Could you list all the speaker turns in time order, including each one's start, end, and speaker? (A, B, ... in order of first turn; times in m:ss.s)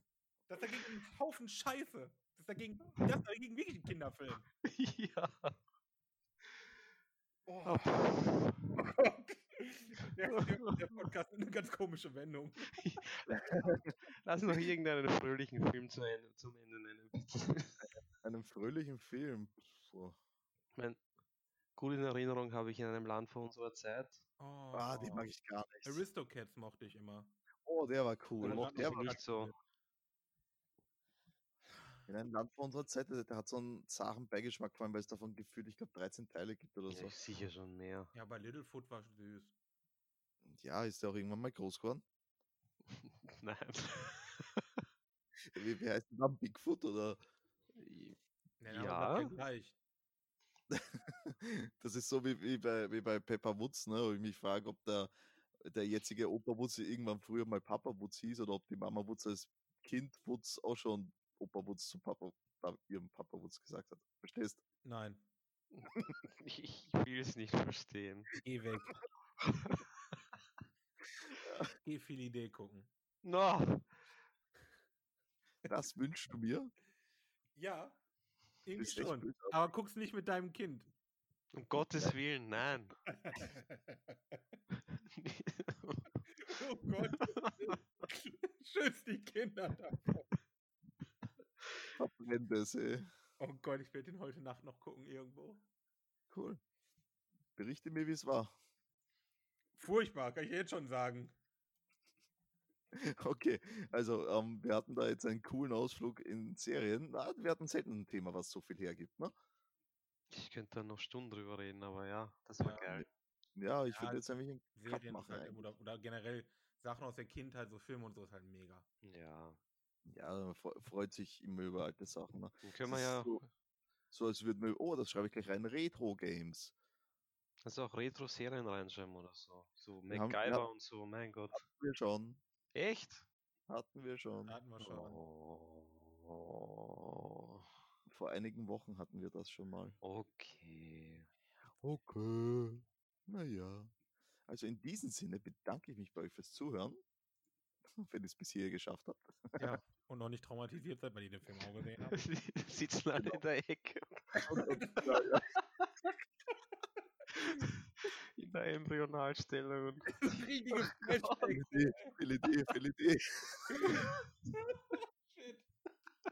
0:00.5-0:04.4 A
0:04.6-0:05.6 B
0:07.5-0:13.0 A
0:07.6-0:08.7 B
0:10.4-0:11.1 B
0:12.7-0:13.4 B
0:13.3-0:13.9 C
0:14.2-0:17.9 B
0:17.8-0:20.2 C
0:20.8-0:21.0 B
0:21.8-0:24.2 B
0:24.4-0:25.3 A
0:24.7-0:26.0 C
0:25.8-0:27.4 A
0:27.6-0:29.2 C
0:28.4-0:29.6 A
0:28.4-0:29.5 B
0:32.1-0:37.2 C
0:36.9-0:38.1 B
0:38.1-0:39.5 A
0:40.5-0:42.0 C
0:42.9-0:44.8 B
0:45.5-0:47.2 C
0:47.8-0:48.2 B
0:48.6-0:49.8 A
0:48.7-0:49.4 B
0:50.7-1:04.6 C
1:04.8-1:05.2 A
1:05.7-1:08.3 B
1:08.4-1:09.0 A
1:09.4-1:09.9 B
1:11.4-1:11.7 C
1:11.8-1:12.9 A
1:13.2-1:13.9 B
1:15.6-1:16.7 C
1:17.6-1:18.0 A
1:18.7-1:20.9 A
1:18.8-1:19.6 C
1:21.5-1:23.0 B
1:21.8-1:22.2 C
1:23.1-1:24.0 A
1:25.1-1:26.2 B
1:26.4-1:30.3 A
1:27.0-1:27.8 B
1:32.0-1:33.1 C
1:33.4-1:35.6 A
1:36.3-1:36.6 C
1:37.6-1:38.5 C
1:39.8-1:41.3 A
1:42.9-1:49.3 C
1:50.3-1:53.1 B
1:53.6-1:55.7 C
1:53.9-1:58.9 A
1:59.0-1:59.6 B
2:00.1-2:03.4 C
2:02.6-2:03.5 B
2:04.1-2:06.7 C
2:07.6-2:11.6 B
2:10.1-2:10.7 C
2:11.5-2:12.4 C
2:12.7-2:13.3 B
2:13.7-2:14.6 C
2:14.5-2:15.2 A
2:14.8-2:17.7 B
2:18.1-2:20.0 C
2:20.0-2:21.3 B
2:21.8-2:23.9 C
2:24.5-2:27.0 C
2:27.9-2:29.7 C
2:29.6-2:32.2 A
2:32.1-2:34.3 B
2:34.3-2:35.2 A
2:34.5-2:35.4 C
2:37.4-2:37.6 A
2:37.4-2:41.4 B
2:40.2-2:42.2 A
2:41.5-2:44.1 C
2:43.7-2:45.7 A